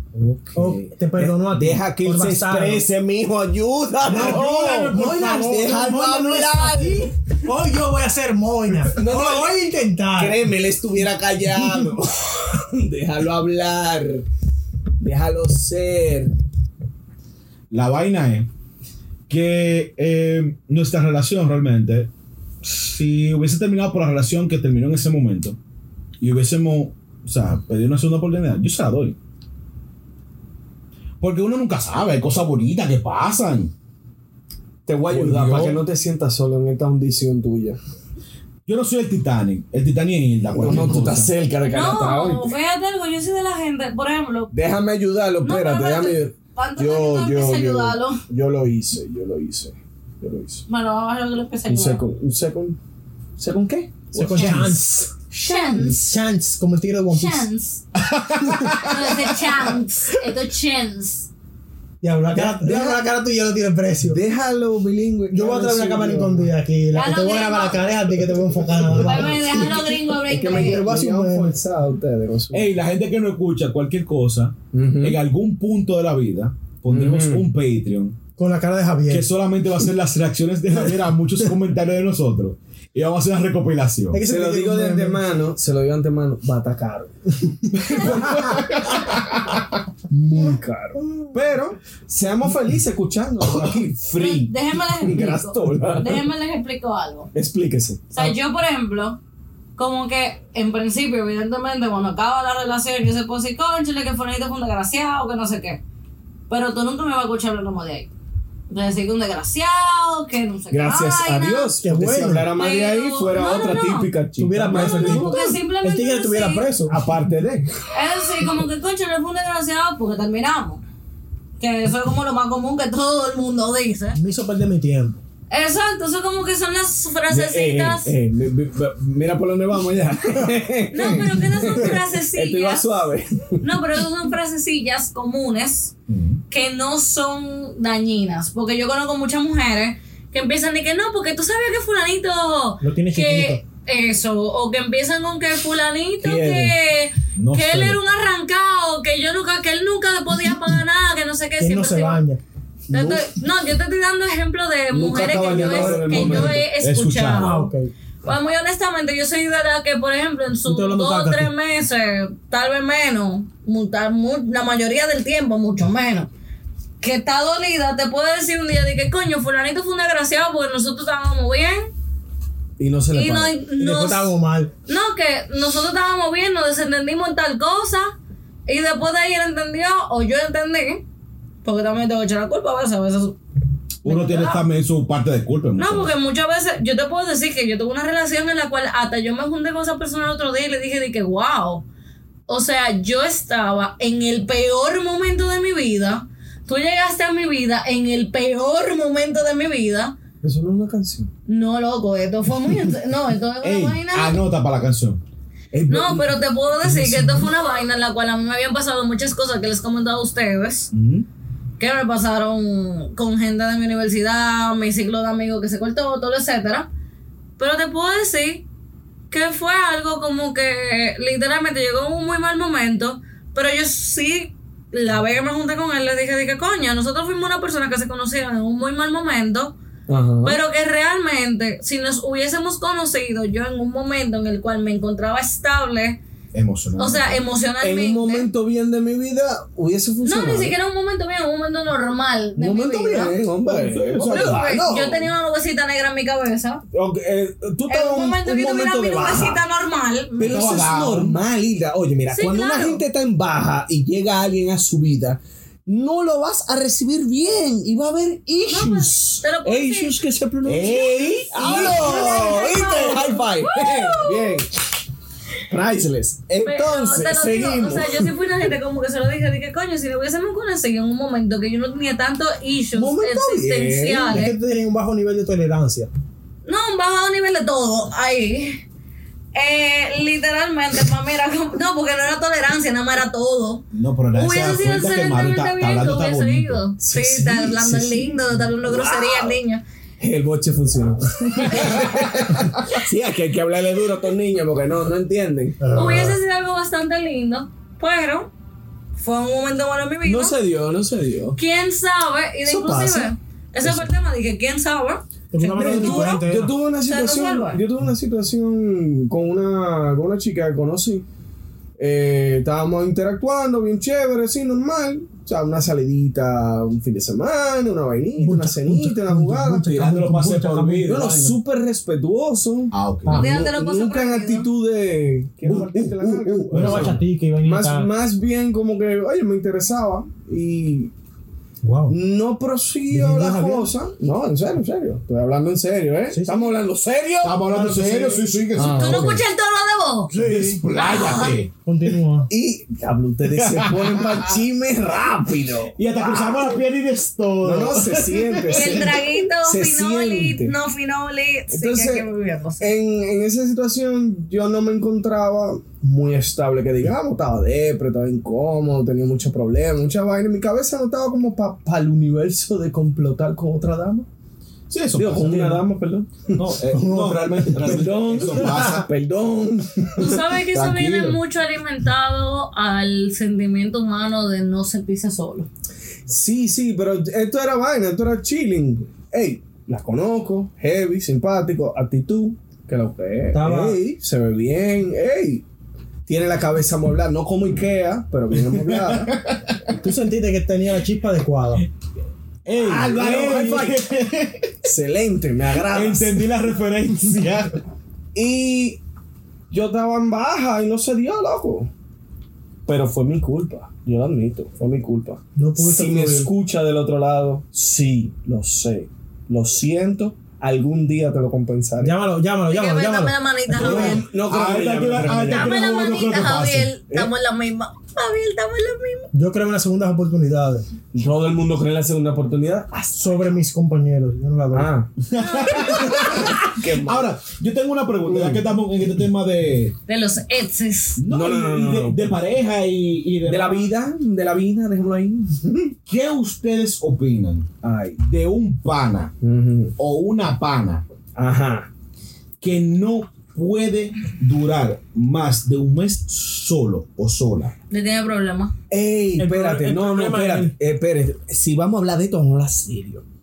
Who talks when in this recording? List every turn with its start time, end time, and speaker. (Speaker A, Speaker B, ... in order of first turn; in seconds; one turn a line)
Speaker A: 0.1-7.1
Speaker B: 0.6-2.9
Speaker C: 4.1-6.5
Speaker B: 4.1-10.4
Speaker A: 8.9-9.6
Speaker A: 10.1-14.2
Speaker A: 15.0-16.4
Speaker C: 17.7-18.5
Speaker C: 19.3-22.1
Speaker C: 22.6-25.6
Speaker C: 26.2-29.2
Speaker C: 31.2-33.7
Speaker A: 34.9-37.8
Speaker C: 35.1-35.8
Speaker C: 38.6-41.3
Speaker A: 40.5-42.5
Speaker D: 41.7-44.5
Speaker A: 44.5-50.6
Speaker D: 45.4-48.2
Speaker D: 50.7-52.0
Speaker A: 51.7-52.8
Speaker A: 53.4-54.8
Speaker B: 54.1-57.5
Speaker C: 54.3-54.7
Speaker D: 55.3-56.2
Speaker D: 57.1-57.8
Speaker C: 58.0-59.4
Speaker D: 58.8-61.3
Speaker B: 62.0-64.2
Speaker A: 62.3-63.0
Speaker A: 64.0-66.5
Speaker B: 65.3-69.6
Speaker D: 66.9-67.9
Speaker A: 68.9-72.7
Speaker D: 69.0-70.8
Speaker B: 70.5-71.6
Speaker C: 72.5-78.2
Speaker A: 74.7-75.2
Speaker A: 76.9-77.5
Speaker B: 78.4-79.3
Speaker C: 79.1-84.2
Speaker B: 84.1-85.2
Speaker A: 84.3-87.1
Speaker C: 87.8-89.6
Speaker A: 88.0-88.6
Speaker A: 90.1-96.2
Speaker B: 91.0-91.3
Speaker D: 94.2-97.3
Speaker A: 97.3-98.3
Speaker D: 98.1-99.2
Speaker D: 99.8-105.8
Speaker D: 106.5-108.1
Speaker D: 108.7-111.7
Speaker A: 110.7-115.4
Speaker B: 111.8-112.5
Speaker D: 112.6-114.1
Speaker B: 114.4-117.0
Speaker D: 114.7-116.7
Speaker A: 116.9-117.7
Speaker D: 117.9-120.8
Speaker D: 121.6-124.2
Speaker B: 124.1-125.2
Speaker D: 125.5-128.1
Speaker A: 127.3-133.8
Speaker D: 130.9-132.9
Speaker D: 133.6-135.9
Speaker C: 136.1-136.4
Speaker D: 136.5-152.2
Speaker B: 142.8-143.6
Speaker A: 146.2-146.7
Speaker C: 147.3-148.0
Speaker B: 151.6-152.4
Speaker A: 152.9-153.3
Speaker D: 152.9-157.7
Speaker A: 154.9-156.6
Speaker B: 155.3-156.6
Speaker C: 156.8-157.6
Speaker B: 157.4-157.9
Speaker D: 158.2-166.3
Speaker B: 160.7-161.5
Speaker D: 167.0-171.9
Speaker A: 172.8-173.6
Speaker D: 173.1-174.3
Speaker B: 173.8-174.7
Speaker D: 174.9-178.1
Speaker D: 178.7-181.0
Speaker D: 181.6-183.4
Speaker C: 184.0-186.1
Speaker D: 184.0-184.6
Speaker D: 185.8-191.8
Speaker D: 192.5-200.1
Speaker A: 200.4-201.3
Speaker D: 201.5-204.4
Speaker C: 203.6-205.2
Speaker A: 205.7-207.5
Speaker D: 205.9-210.9
Speaker C: 210.9-211.3
Speaker D: 211.8-216.9
Speaker D: 217.6-218.6
Speaker D: 219.3-229.8
Speaker A: 230.1-230.6
Speaker D: 230.4-236.2
Speaker C: 236.5-237.4
Speaker D: 237.0-238.5
Speaker A: 237.8-240.8
Speaker D: 240.2-243.4
Speaker A: 242.6-245.3
Speaker C: 243.7-244.8
Speaker D: 244.3-246.8
Speaker A: 246.9-249.6
Speaker D: 247.9-250.8
Speaker A: 250.4-264.7
Speaker C: 250.4-251.4
Speaker D: 252.3-253.0
Speaker D: 258.6-260.1
Speaker C: 260.6-262.6
Speaker D: 260.7-264.6
Speaker A: 265.7-268.3
Speaker D: 266.6-274.6
Speaker A: 272.9-274.5
Speaker B: 274.2-276.1
Speaker D: 276.6-278.8
Speaker D: 279.5-289.8
Speaker C: 283.9-286.8
Speaker A: 287.0-289.6
Speaker A: 290.2-296.4
Speaker C: 291.6-292.0
Speaker B: 295.8-296.3
Speaker D: 295.9-298.5
Speaker D: 299.2-300.6
Speaker A: 300.2-301.6
Speaker D: 301.6-306.5
Speaker A: 302.6-303.3
Speaker B: 305.5-306.7
Speaker A: 305.8-311.3
Speaker D: 307.1-307.8
Speaker A: 312.0-319.9
Speaker B: 318.4-321.1
Speaker C: 319.9-321.6
Speaker A: 321.0-331.1
Speaker C: 322.9-323.5
Speaker D: 323.3-324.7
Speaker C: 325.6-327.2
Speaker B: 326.7-328.1
Speaker B: 331.8-332.1
Speaker A: 332.1-337.7
Speaker B: 333.1-333.9
Speaker B: 336.3-336.7
Speaker C: 337.4-339.3
Speaker B: 337.6-338.5
Speaker A: 338.7-339.4
Speaker D: 338.9-340.3
Speaker B: 340.3-340.8
Speaker C: 340.3-341.7
Speaker D: 340.9-341.6
Speaker B: 341.9-342.5
Speaker A: 342.5-346.8
Speaker C: 343.6-344.5
Speaker C: 346.0-349.1
Speaker A: 347.6-350.8
Speaker D: 348.7-352.9
Speaker A: 351.7-352.3
Speaker A: 352.8-364.3
Speaker C: 364.9-365.8
Speaker A: 365.1-366.6
Speaker C: 366.5-369.1
Speaker B: 366.9-368.9
Speaker A: 367.8-370.4
Speaker D: 370.2-375.7
Speaker C: 370.7-371.4
Speaker A: 376.3-385.6
Speaker B: 383.5-384.0
Speaker A: 386.3-389.3
Speaker C: 388.7-389.8
Speaker B: 390.0-391.9
Speaker C: 392.6-394.7
Speaker A: 392.8-394.0
Speaker A: 394.8-396.4
Speaker C: 395.9-397.8
Speaker A: 398.4-399.0
Speaker A: 399.7-401.9
Speaker A: 402.9-412.1
Speaker B: 405.6-406.5
Speaker B: 412.0-413.9
Speaker D: 412.7-414.2
Speaker A: 413.7-415.8
Speaker C: 413.7-416.9
Speaker D: 415.5-419.3
Speaker B: 419.3-420.9
Speaker A: 421.1-423.6
Speaker B: 423.1-424.9
Speaker A: 424.7-427.3
Speaker C: 425.3-430.0
Speaker A: 428.3-428.6
Speaker D: 430.1-431.2
Speaker C: 431.2-433.9
Speaker A: 431.3-432.4
Speaker A: 433.4-435.9
Speaker C: 436.1-437.7
Speaker A: 437.8-438.2
Speaker C: 438.2-439.3
Speaker A: 439.4-439.9
Speaker C: 440.0-441.0
Speaker A: 441.4-441.9
Speaker C: 442.6-447.7
Speaker D: 447.9-448.7
Speaker A: 448.9-453.2
Speaker B: 449.4-450.7